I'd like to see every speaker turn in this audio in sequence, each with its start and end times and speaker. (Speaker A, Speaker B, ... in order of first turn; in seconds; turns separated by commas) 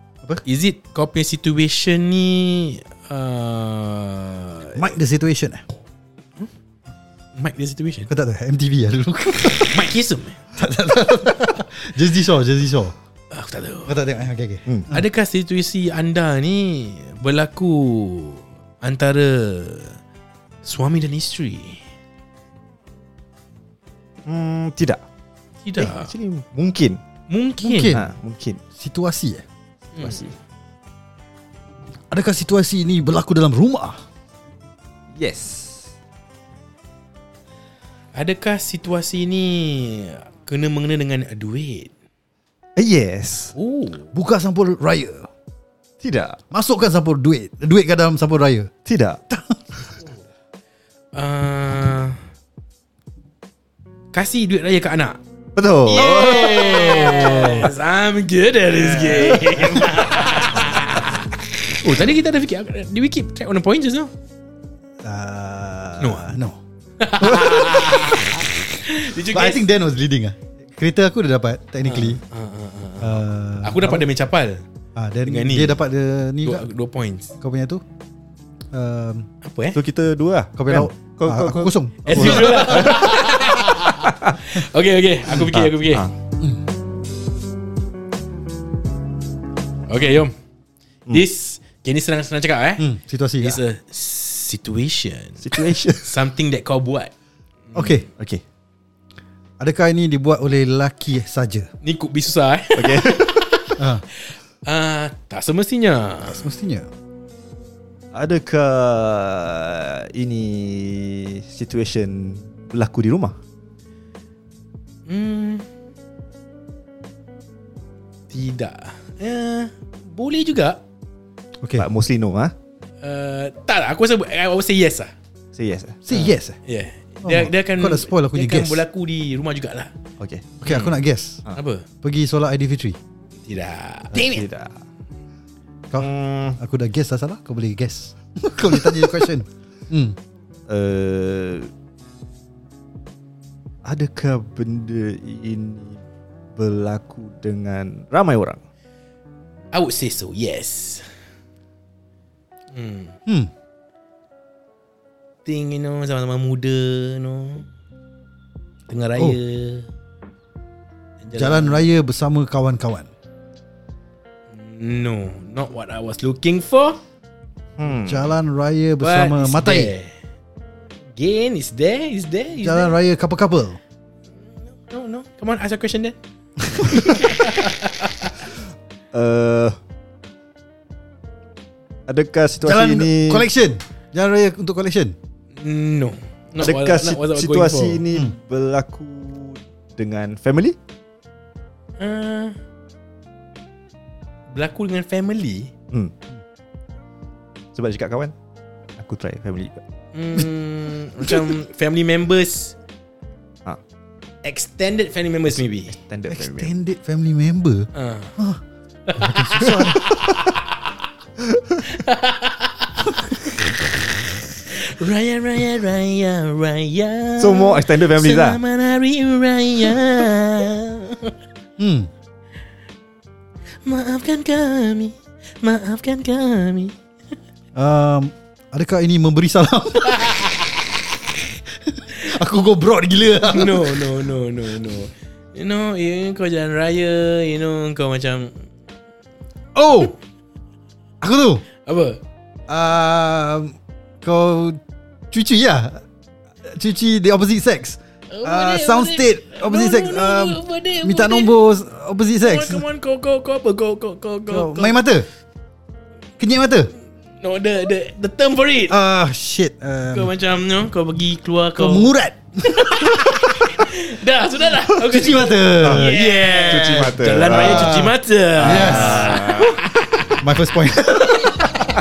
Speaker A: 0.4-4.8, Speaker B: 4.8-5.6, Speaker A: 7.3-8.1, Speaker B: 8.1-9.8, Speaker A: 9.6-10.4, Speaker B: 10.6-12.9, Speaker A: 13.3-13.9, Speaker B: 13.9-15.0, Speaker A: 14.9-20.0, Speaker A: 20.6-21.8, Speaker C: 24.2-25.0, Speaker A: 25.6-26.1, Speaker C: 25.8-27.0, Speaker A: 27.3-28.0, Speaker B: 27.6-28.0, Speaker C: 27.9-28.6, Speaker B: 28.8-29.4, Speaker A: 29.9-30.3, Speaker C: 30.0-30.3, Speaker B: 32.1-34.0, Speaker C: 35.1-35.9, Speaker A: 38.1-41.9, Speaker C: 42.8-43.5, Speaker A: 43.5-44.0, Speaker B: 44.1-45.3, Speaker C: 46.0-46.4, Speaker B: 46.5-48.7, Speaker C: 48.9-49.2, Speaker B: 49.3-49.9, Speaker A: 51.1-52.2, Speaker A: 54.1-55.2, Speaker C: 55.5-57.0, Speaker A: 55.9-64.1, Speaker B: 56.1-57.7, Speaker B: 58.8-60.5, Speaker B: 65.0-66.6, Speaker A: 66.0-66.3, Speaker A: 67.0-69.6, Speaker B: 69.3-72.2, Speaker A: 71.8-74.6, Speaker B: 73.0-74.0, Speaker B: 75.0-76.7, Speaker A: 75.2-75.8, Speaker A: 76.4-77.3, Speaker B: 77.4-77.8, Speaker B: 78.7-79.3, Speaker A: 79.4-79.8, Speaker C: 79.7-84.4, Speaker B: 80.5-82.9, Speaker A: 82.0-86.0, Speaker C: 85.3-86.1, Speaker A: 89.9-90.3, Speaker A: 91.1-92.8, Speaker B: 92.8-93.6, Speaker A: 93.4-97.1, Speaker C: 95.4-96.1, Speaker B: 97.7-98.0, Speaker C: 98.2-98.4, Speaker B: 99.6-101.7, Speaker A: 101.8-106.5, Speaker C: 102.7-103.4, Speaker B: 103.8-104.0, Speaker B: 106.3-106.9, Speaker C: 108.1-113.3, Speaker A: 115.1-115.7, Speaker A: 118.3-120.8, Speaker B: 121.6-121.9, Speaker C: 121.8-122.5, Speaker A: 123.0-125.1, Speaker C: 125.5-126.3, Speaker B: 126.1-126.6, Speaker A: 126.1-129.9, Speaker B: 127.2-128.8, Speaker C: 130.2-130.4, Speaker B: 130.6-131.4, Speaker A: 130.6-131.0, Speaker A: 131.5-131.8, Speaker B: 132.0-133.0, Speaker A: 133.4-134.4, Speaker C: 134.1-134.8, Speaker B: 135.9-140.2, Speaker C: 136.0-136.6, Speaker C: 140.7-141.7, Speaker C: 143.8-146.0, Speaker C: 146.6-148.6, Speaker A: 149.7-151.1, Speaker A: 152.7-153.1, Speaker A: 155.4-157.7, Speaker A: 158.9-159.9, Speaker A: 161.2-161.8, Speaker B: 161.3-163.1, Speaker A: 164.6-167.0, Speaker C: 167.8-168.3, Speaker B: 168.0-169.9, Speaker A: 169.0-170.1, Speaker A: 171.2-172.9, Speaker B: 172.6-173.8, Speaker A: 174.8-176.2, Speaker A: 176.8-178.3, Speaker C: 179.1-179.8, Speaker C: 182.1-183.4, Speaker B: 182.6-185.1, Speaker A: 185.6-188.0, Speaker C: 186.6-190.8, Speaker A: 192.0-192.6, Speaker A: 194.5-195.7, Speaker C: 197.7-198.3, Speaker C: 199.0-199.8, Speaker A: 200.1-202.8, Speaker A: 204.4-206.0, Speaker C: 206.0-206.7, Speaker B: 206.3-208.6, Speaker A: 207.9-208.4, Speaker A: 209.1-210.7, Speaker B: 209.2-210.1, Speaker C: 211.4-211.8, Speaker A: 211.8-213.6, Speaker A: 214.7-221.3, Speaker C: 217.4-218.6, Speaker B: 221.8-222.1, Speaker A: 223.8-226.9, Speaker B: 227.7-230.7, Speaker A: 230.1-230.7, Speaker B: 231.9-234.1, Speaker A: 233.4-238.5, Speaker B: 239.7-240.1, Speaker B: 241.2-241.6, Speaker A: 241.8-242.2, Speaker B: 242.7-244.8, Speaker B: 245.3-246.0, Speaker B: 246.6-252.8, Speaker A: 248.3-251.5, Speaker A: 252.4-255.0, Speaker B: 254.5-255.3, Speaker B: 256.4-256.9, Speaker A: 257.4-259.0, Speaker B: 258.9-260.3, Speaker A: 260.1-262.1, Speaker B: 261.8-263.7, Speaker A: 262.6-270.4, Speaker B: 264.9-269.4, Speaker C: 265.8-269.8, Speaker B: 270.4-271.7